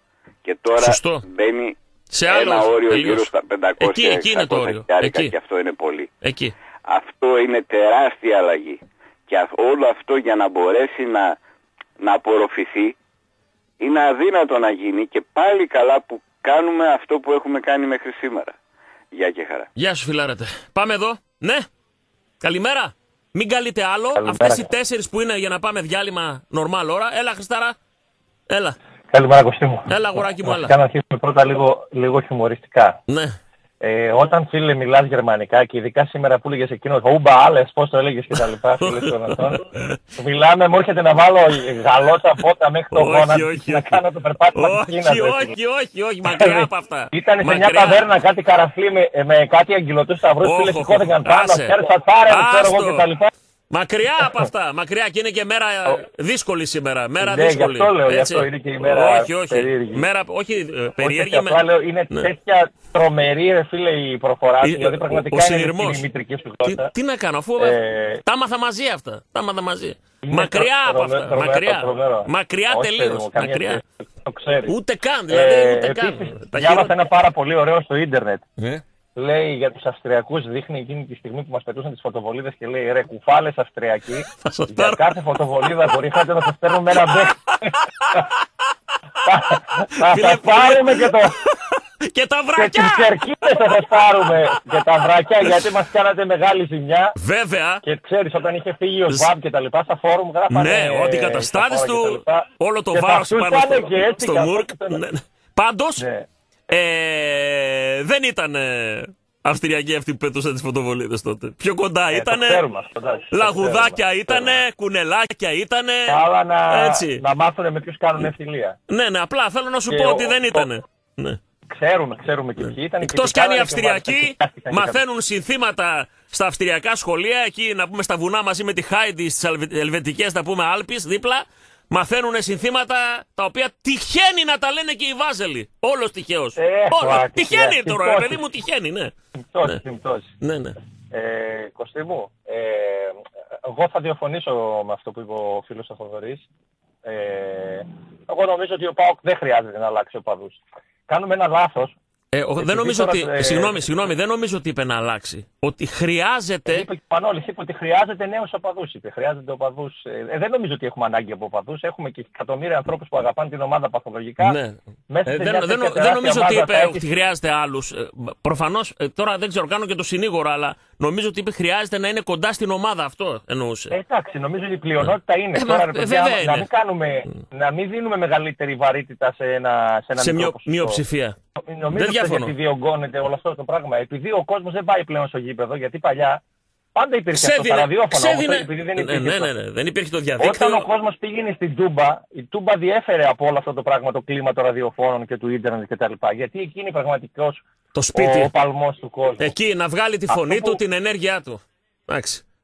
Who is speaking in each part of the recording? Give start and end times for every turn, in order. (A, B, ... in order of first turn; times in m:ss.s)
0:00.4-0:06.1 A
0:00.8-0:01.2 B
0:02.1-0:05.3 B
0:06.2-0:06.5 B
0:06.9-0:11.4 A
0:12.0-0:12.9 A
0:13.8-0:18.5 A
0:19.1-0:19.7 A
0:19.8-0:21.7 B
0:22.4-0:27.8 B
0:24.2-0:24.7 C
0:28.5-0:28.8 B
0:29.1-0:29.9 C
0:29.9-0:30.7 B
0:30.4-0:33.0 C
0:33.1-0:33.4 B
0:33.8-0:39.6 C
0:38.8-0:40.0 B
0:40.2-0:45.5 C
0:42.9-0:44.0 B
0:44.5-0:48.0 B
0:46.2-0:53.3 C
0:50.4-0:51.8 B
0:52.3-0:53.1 B
0:53.7-1:02.3 B
0:57.2-1:00.0 C
1:01.0-1:06.9 C
1:04.6-1:06.0 B
1:06.6-1:13.8 B
1:07.6-1:08.2 C
1:10.2-1:14.7 C
1:14.7-1:16.9 B
1:15.3-1:18.4 C
1:19.2-1:28.2 C
1:24.4-1:25.1 B
1:27.0-1:27.3 B
1:29.2-1:31.4 C
1:30.0-1:31.5 B
1:32.1-1:34.8 B
1:32.6-1:37.1 C
1:37.2-1:37.8 B
1:37.8-1:45.0 C
1:40.5-1:46.0 B
1:46.0-1:46.2 C
1:46.7-1:52.6 B
1:52.1-1:54.6 C
1:53.3-1:57.2 B
1:56.1-1:58.8 C
1:58.9-2:01.4 B
1:59.9-2:00.7 C
2:01.7-2:05.0 C
2:03.0-2:19.1 B
2:16.6-2:18.4 C
2:19.5-2:20.3 C
2:20.4-2:20.8 B
2:21.1-2:26.4 C
2:27.0-2:32.0 C
2:32.3-2:36.9 B
2:32.6-2:33.8 C
2:36.7-2:44.6 C
2:44.4-2:53.9 B
2:45.1-2:47.0 C
2:53.9-3:01.0 C
2:55.0-2:56.7 B
3:00.2-3:01.4 B
3:01.6-3:06.4 C
3:01.9-3:02.5 B
3:06.9-3:09.5 C
3:07.3-3:10.9 B
3:10.4-3:17.6 C
3:17.9-3:18.5 B
3:18.1-3:19.5 C
3:19.4-3:22.4 B
3:20.3-3:20.8 C